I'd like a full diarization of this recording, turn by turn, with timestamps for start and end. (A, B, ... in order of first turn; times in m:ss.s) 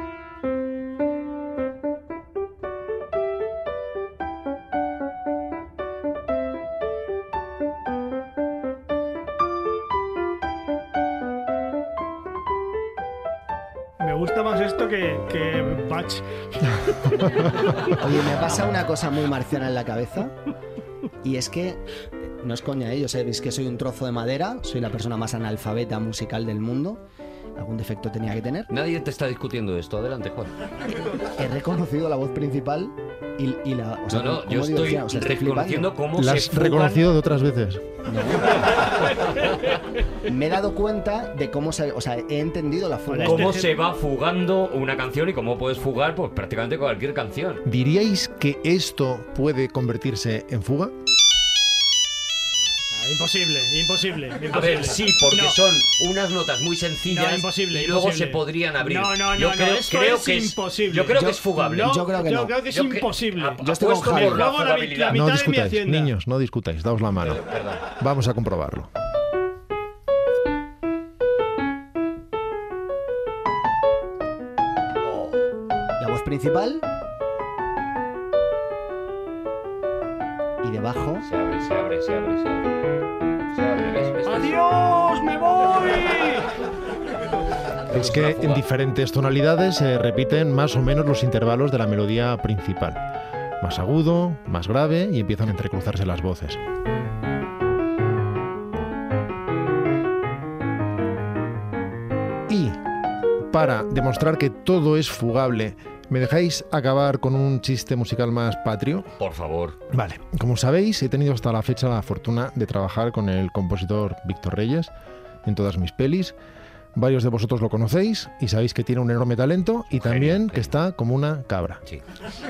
0:14.0-0:18.0 A
0:17.9-0:20.4 B
0:21.2-0:27.0 B
0:27.6-0:28.7 B
0:28.7-0:30.5 C
0:31.4-0:35.9 B
0:34.1-0:37.1 C
0:36.2-0:37.9 D
0:38.1-0:38.9 B
0:40.3-0:43.6 B
0:43.1-0:43.7 A
0:43.2-0:47.6 C
0:47.6-0:50.9 D
0:52.9-0:55.6 A
0:54.5-1:02.0 C
0:57.1-1:06.1 A
1:01.1-1:02.6 B
1:02.7-1:05.2 C
1:03.6-1:04.5 B
1:05.1-1:08.9 D
1:07.2-1:07.9 C
1:15.0-1:15.4 C
1:16.0-1:16.8 B
1:20.6-1:21.2 B
1:21.2-1:22.7 C
1:23.5-1:24.6 C
1:24.3-1:26.5 A
1:27.9-1:28.6 C
1:27.9-1:33.0 D
1:33.6-1:36.6 D
1:42.5-1:42.8 D
1:43.5-1:49.1 D
1:49.2-1:49.8 C
1:49.9-1:54.9 D
1:55.4-1:56.4 D
1:57.0-2:01.8 D
1:59.9-2:00.7 C